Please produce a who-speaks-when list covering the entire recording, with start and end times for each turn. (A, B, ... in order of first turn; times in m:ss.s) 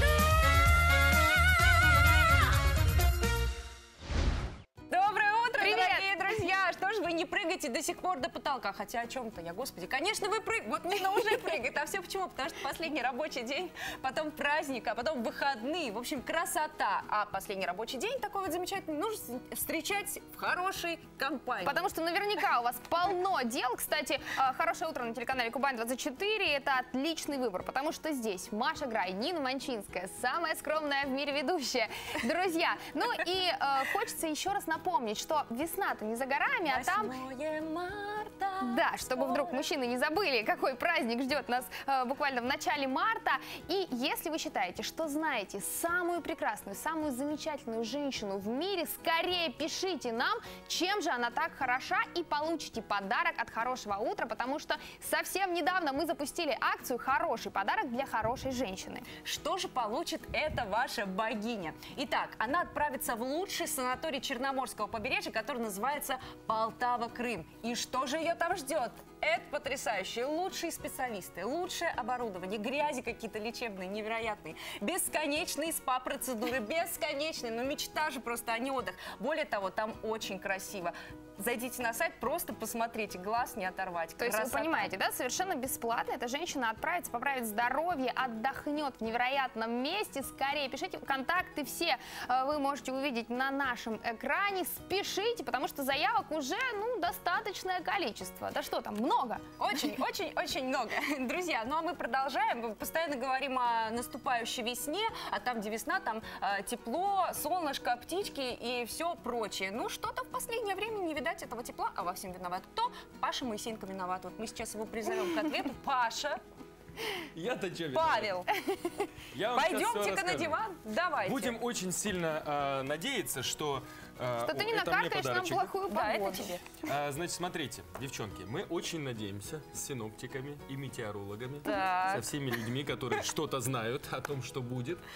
0:04.9-0:21.9 A
0:05.6-0:06.3 B
0:21.6-0:37.2 B
0:36.7-0:39.7 A
0:38.6-0:59.1 B
0:59.1-1:24.9 A
1:24.2-1:39.4 B
1:39.6-1:56.4 A
1:57.4-1:58.4 C
1:57.9-1:58.5 A
1:59.3-2:00.6 C
1:59.5-2:01.6 A
2:01.2-2:05.7 C
2:04.4-2:06.5 B
2:05.9-2:06.6 A
2:06.8-2:15.0 C
2:11.6-2:12.4 A